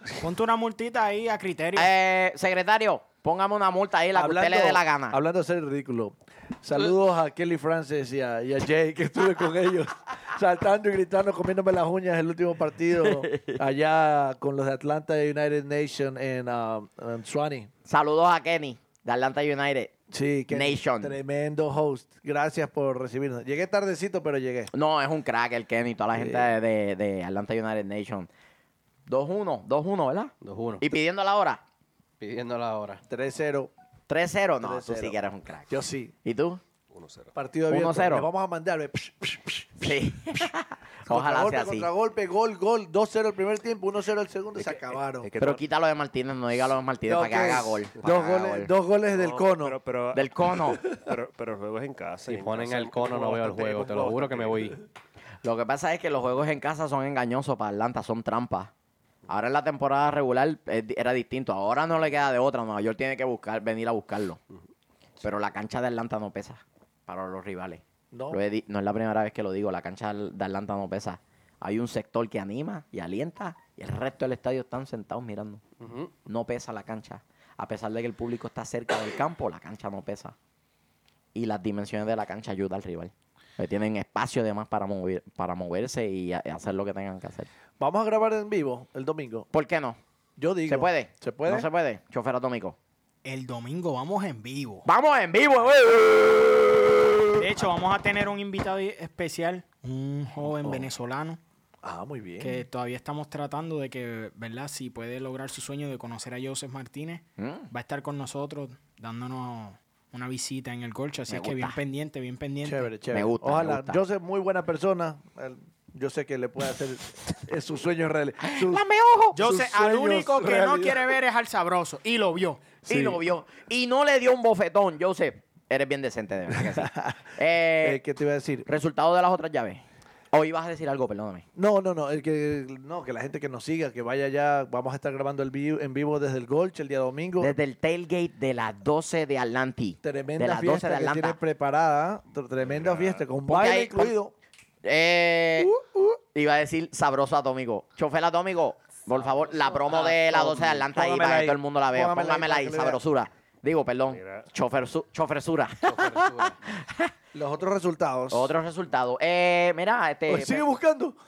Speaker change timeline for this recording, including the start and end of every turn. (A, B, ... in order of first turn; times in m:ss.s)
0:00.2-0:01.9 A
0:01.8-0:05.2 B
0:04.2-0:17.7 C
0:13.0-0:13.6 B
0:17.9-0:19.9 B
0:20.1-0:24.7 C
0:20.5-0:21.2 B
0:24.7-0:28.3 B
0:26.2-0:26.5 C
0:29.1-0:31.6 B
0:30.4-0:30.8 D
0:32.2-0:33.0 D
0:33.1-0:33.7 C
0:34.1-0:35.7 B
0:34.6-0:35.2 C
0:35.7-0:36.1 C
0:36.2-0:36.6 B
0:36.9-0:37.3 E
0:37.4-0:39.7 C
0:37.7-0:38.3 B
0:39.8-0:41.9 B
0:41.1-0:45.3 C
0:44.6-0:45.6 E
0:45.4-0:48.7 B
0:47.1-0:49.8 C
0:49.1-0:54.8 E
0:50.1-0:50.8 B
0:52.3-0:54.8 D
0:55.4-0:58.7 B
0:59.3-1:04.4 B
1:05.2-1:15.6 B
1:08.1-1:08.4 C
1:15.8-1:16.1 D
1:16.3-1:20.4 B
1:21.4-1:27.5 B
1:27.8-1:29.5 C
1:29.5-1:30.0 B
1:30.4-1:31.7 C
1:30.7-1:32.8 B
1:33.2-1:34.9 A
1:34.8-1:37.5 B
1:37.4-1:41.4 A
1:40.6-1:40.9 C
1:41.8-1:42.6 C
1:42.4-1:52.9 A
1:47.4-1:47.7 B
1:51.3-1:51.8 B
1:52.6-1:58.8 C
1:53.1-1:54.0 B
1:58.4-1:59.4 B
1:59.3-2:02.6 A
1:59.4-2:01.2 C
2:02.9-2:08.0 B
2:02.9-2:03.2 C
2:06.6-2:07.2 C
2:07.8-2:08.7 C
2:08.7-2:11.4 B
2:11.6-2:17.5 C
2:17.4-2:21.4 B
2:20.0-2:24.3 C
2:22.6-2:23.2 E
2:23.5-2:24.1 B
2:24.8-2:25.7 B
2:25.6-2:26.2 C
2:26.3-2:37.1 B
2:29.2-2:30.1 D
2:29.9-2:33.0 C
2:34.1-2:34.5 E
2:35.8-2:36.6 D
2:37.3-2:38.5 C
2:38.3-2:40.7 B
2:40.3-2:41.2 C